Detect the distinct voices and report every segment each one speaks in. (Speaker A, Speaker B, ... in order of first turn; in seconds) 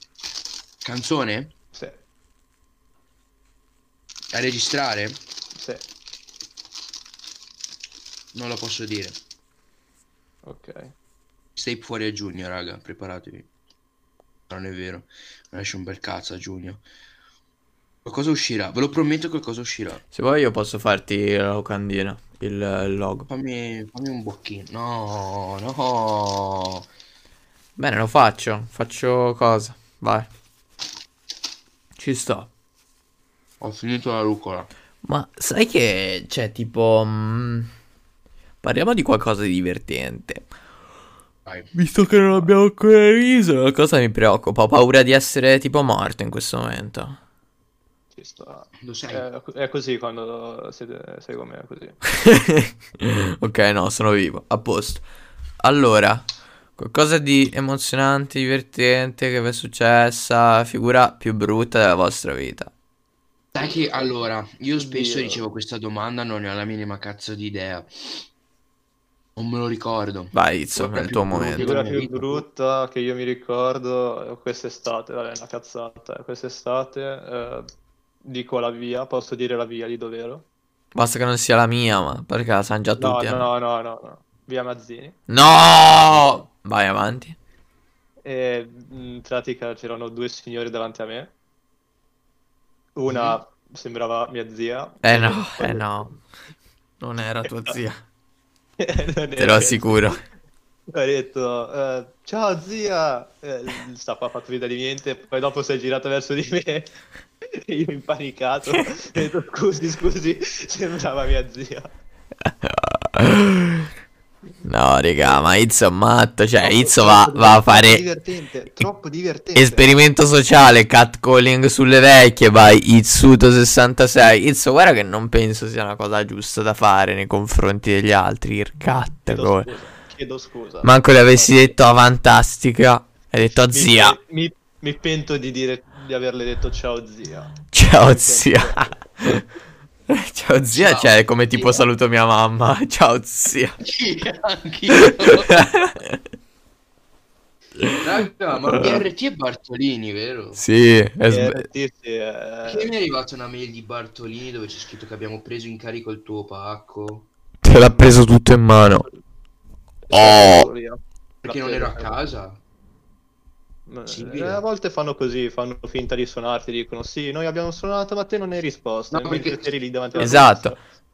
Speaker A: 0.8-1.5, 4.3-5.2, 8.3-9.2, 11.6-13.5, 14.5-16.8, 18.0-20.0, 23.3-26.9, 33.6-34.7, 41.5-41.7, 48.8-49.2, 63.5-68.2, 69.4-72.5, 93.1-93.4, 140.7-141.9, 143.8-145.7, 148.0-150.6, 152.7-157.3, 161.4-162.6, 164.1-164.6, 169.1-170.5
Speaker B: 1.7-2.0, 5.5-5.8, 10.4-10.9, 48.1-52.0, 64.8-65.4, 71.6-77.7, 78.2-80.5, 83.0-85.2, 88.2-91.3, 93.0-95.8, 98.8-100.2, 100.9-111.9, 116.6-119.9, 129.3-131.7, 133.5-138.9, 151.3-152.9, 157.8-158.2, 160.1-162.2, 163.9-170.8
Speaker C: 20.1-23.3, 27.8-30.3, 32.0-32.5, 35.0-37.7, 38.6-40.5, 41.8-47.2, 52.1-55.0, 55.6-56.3, 56.8-62.7, 70.3-71.7, 80.9-83.5, 85.3-87.4, 95.0-96.2, 97.0-98.0, 99.4-100.2, 112.5-113.9, 114.7-118.0, 119.6-129.7, 130.8-134.2, 137.7-139.4, 140.1-143.8, 145.0-146.2, 148.7-149.1, 150.6-151.7, 157.6-159.1, 160.1-160.7, 170.2-170.8